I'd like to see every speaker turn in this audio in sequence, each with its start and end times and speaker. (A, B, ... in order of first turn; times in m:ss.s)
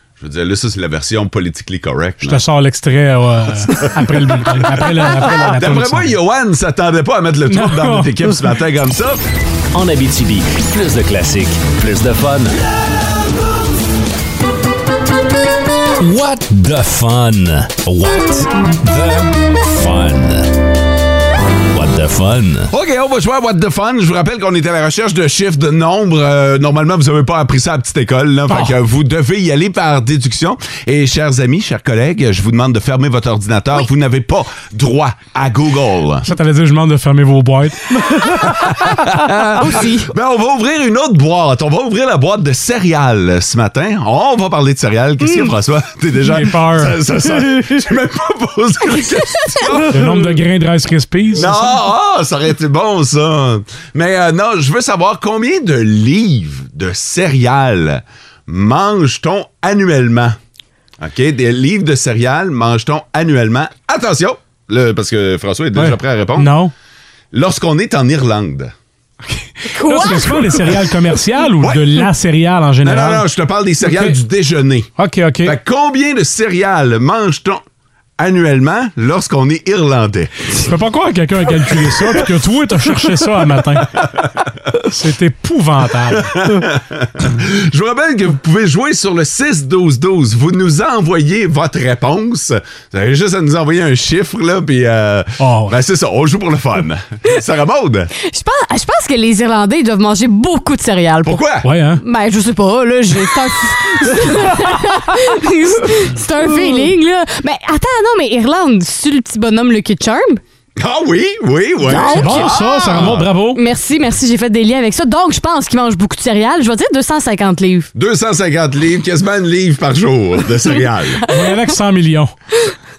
0:00.2-0:02.4 A
0:02.2-0:06.2 B
0:03.6-0:09.2 A
0:07.5-0:08.4 B
0:09.7-0:12.6 C
0:16.0-0:20.5 C
0:21.7-0:22.7 C
0:22.7-0:36.3 A
0:28.5-0:28.8 B
0:36.2-0:37.8 B
0:38.2-0:50.4 A
0:39.6-0:40.1 D
0:46.2-0:47.0 B
0:49.9-0:51.8 B
0:51.3-1:00.4 A
1:01.0-1:06.6 A
1:05.8-1:06.7 B
1:07.3-1:08.7 A
1:09.7-1:10.5 D
1:09.8-1:13.3 B
1:11.6-1:12.1 A
1:12.8-1:14.9 A
1:13.8-1:14.2 B
1:15.0-1:15.6 B
1:15.4-1:17.6 A
1:18.2-1:20.7 A
1:20.7-1:24.0 B
1:21.7-1:22.2 A
1:24.8-1:26.3 B
1:26.1-1:38.1 A
1:35.4-1:35.7 B
1:38.2-1:41.4 D
1:41.2-1:41.7 A
1:41.6-1:42.0 B
1:42.0-1:50.4 D
1:50.8-1:53.3 A
1:51.8-1:52.6 D
1:51.9-1:53.6 B
1:53.6-1:57.9 D
1:58.0-2:01.2 A
2:01.3-2:01.6 D
2:01.3-2:02.3 B